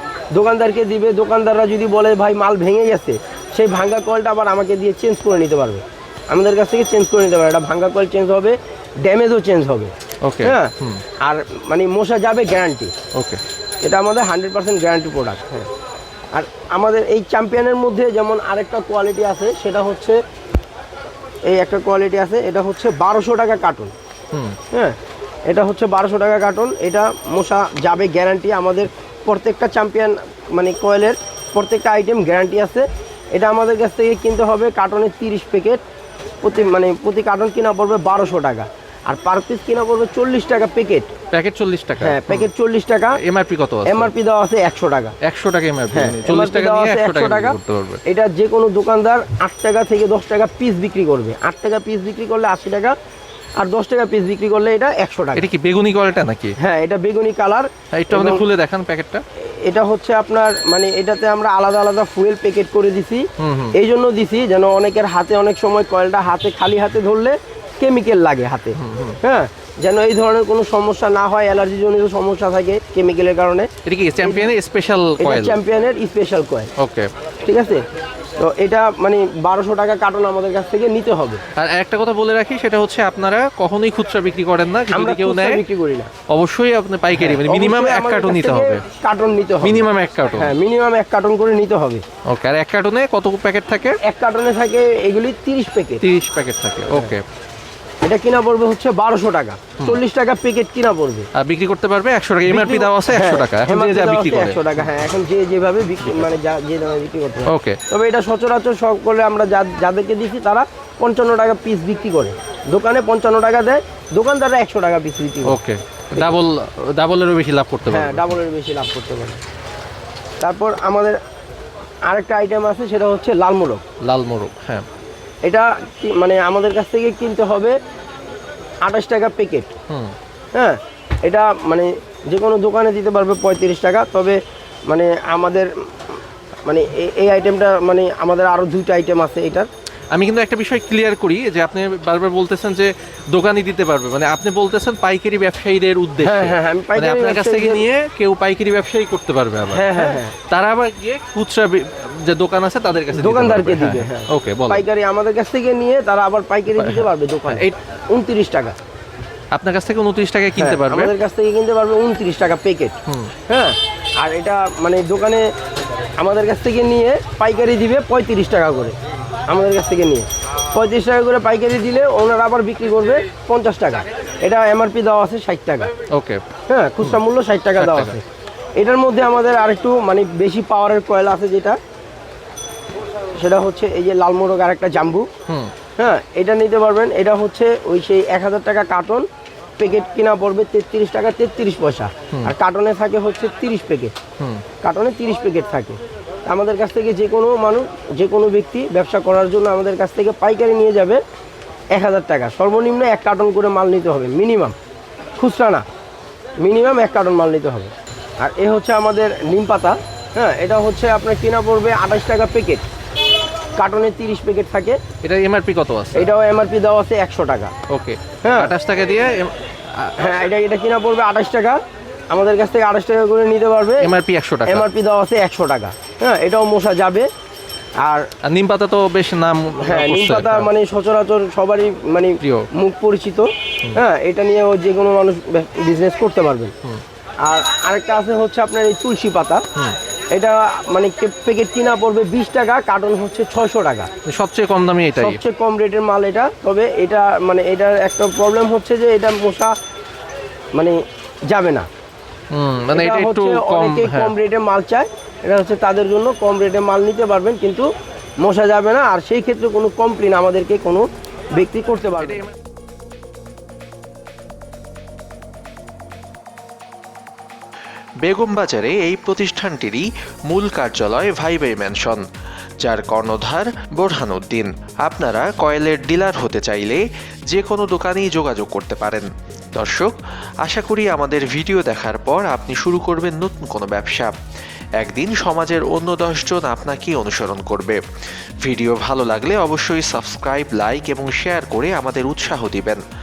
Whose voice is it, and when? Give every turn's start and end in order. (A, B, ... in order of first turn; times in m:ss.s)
0:00.3-0:12.9 A
0:10.2-0:11.0 B
0:13.1-0:13.4 B
0:13.8-0:15.7 A
0:16.3-0:20.2 A
0:21.5-0:23.9 A
0:24.3-0:24.6 B
0:24.7-0:25.0 A
0:25.5-0:35.8 A
0:36.4-0:41.1 A
0:41.3-0:42.5 B
0:42.0-0:43.2 A
0:43.2-0:44.1 B
0:43.9-0:45.2 A
0:45.2-0:48.0 B
0:45.9-0:52.9 A
0:53.6-0:55.5 A
0:55.3-0:56.5 B
0:56.6-0:58.4 A
0:58.0-0:59.2 B
0:59.4-1:13.7 A
1:03.4-1:03.7 B
1:08.8-1:09.2 B
1:13.8-1:15.6 B
1:14.2-1:14.5 A
1:15.2-1:16.7 A
1:16.8-1:17.1 B
1:17.4-1:17.8 A
1:18.4-1:21.4 A
1:21.6-1:25.6 B
1:24.9-1:26.1 A
1:26.3-1:28.8 B
1:27.1-1:32.0 A
1:29.6-1:30.5 B
1:32.3-1:34.0 B
1:34.0-1:36.0 A
1:36.0-1:37.2 B
1:38.0-1:41.3 A
1:41.3-1:44.7 B
1:42.5-1:55.6 A
1:47.5-1:47.8 B
1:55.4-1:58.4 B
1:57.9-1:59.4 A
2:00.4-2:01.2 A
2:02.0-2:03.8 A
2:04.0-2:04.8 B
2:05.4-2:07.8 A
2:08.8-2:09.7 A
2:09.9-2:10.1 B
2:10.5-2:15.7 A
2:16.6-2:19.7 A
2:20.1-2:34.8 B
2:26.2-2:27.8 A
2:29.7-2:30.3 A
2:33.1-2:38.8 A
2:36.8-2:37.7 B
2:39.5-2:41.1 B
2:40.6-2:43.0 A
2:43.1-2:43.3 B
2:43.5-2:45.5 A
2:46.2-2:48.9 A
2:49.5-2:55.9 A
2:56.1-2:56.4 B
2:56.7-2:58.2 A
2:57.8-2:58.2 B
2:58.8-3:01.8 A
3:03.4-3:05.3 A
3:05.5-3:05.7 B
3:06.0-3:09.2 A
3:09.8-3:14.1 A
3:14.8-3:21.2 A
3:21.9-3:24.8 A
3:25.4-3:25.8 A
3:26.6-3:32.8 A
3:33.8-3:35.0 A
3:35.2-3:36.3 B
3:36.1-3:37.7 A
3:37.9-3:40.2 B
3:38.4-3:38.7 A
3:40.2-3:44.1 A
3:44.0-3:44.8 B
3:44.6-3:47.2 A
3:48.4-3:50.7 B
3:49.8-3:56.7 A
3:52.4-3:52.7 B
3:57.4-3:59.6 A
4:00.3-4:04.1 A
4:04.2-4:05.4 B
4:05.2-4:09.7 A
4:11.5-4:11.9 A
4:12.5-4:14.3 B
4:12.9-4:17.9 A
4:18.4-4:22.4 A
4:28.2-4:32.2 C
4:32.8-4:44.4 C
4:45.0-4:48.0 C
4:48.6-4:53.0 C